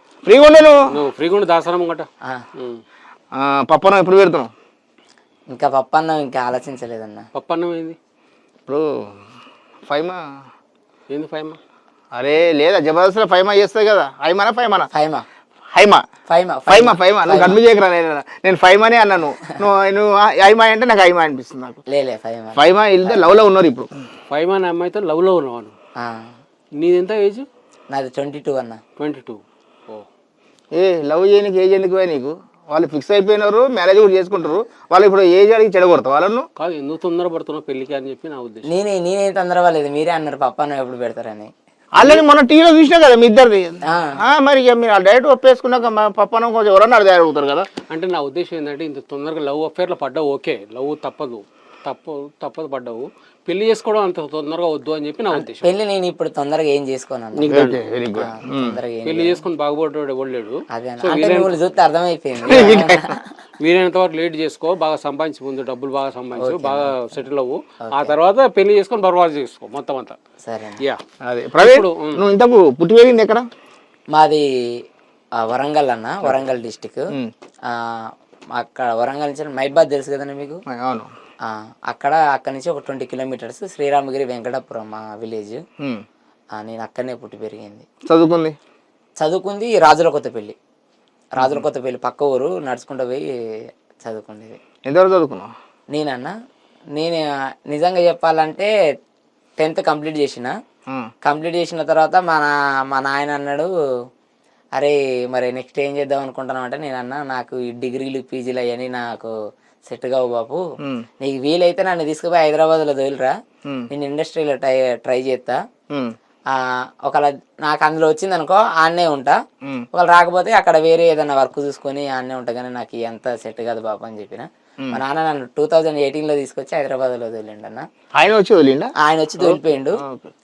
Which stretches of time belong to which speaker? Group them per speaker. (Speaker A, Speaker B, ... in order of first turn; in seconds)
Speaker A: 0.2-0.9, 3.3-4.5, 8.7-9.2, 9.9-10.3, 12.1-14.9, 15.7-16.0, 16.7-21.8, 22.6-24.0, 30.7-36.5, 41.9-47.7, 57.5-58.8, 62.5-63.1, 71.2-73.5, 80.7-81.1, 88.0-88.5, 94.9-95.5, 128.1-130.3
Speaker B: 0.9-2.8, 7.3-8.0, 11.1-11.6, 24.3-25.7, 26.8-27.5, 29.0-30.1, 36.6-38.7, 47.9-55.7, 57.4-57.8, 59.0-61.5, 62.5-62.9, 63.6-70.2, 71.6-72.2
Speaker C: 5.5-7.3, 14.9-15.2, 16.3-17.6, 21.9-23.4, 26.0-26.3, 27.9-28.8, 38.6-41.5, 43.8-44.2, 55.4-57.6, 58.1-59.4, 60.7-63.3, 66.3-67.2, 67.8-68.1, 70.4-70.8, 74.1-74.5, 75.4-77.1, 77.7-80.6, 81.4-85.6, 86.5-87.9, 89.2-90.5, 91.3-93.3, 94.0-94.6, 95.9-96.3, 96.9-98.7, 99.6-100.5, 101.2-103.7, 104.8-109.3, 109.9-110.6, 111.2-113.3, 113.9-115.6, 116.5-119.4, 119.9-127.8, 129.0-130.0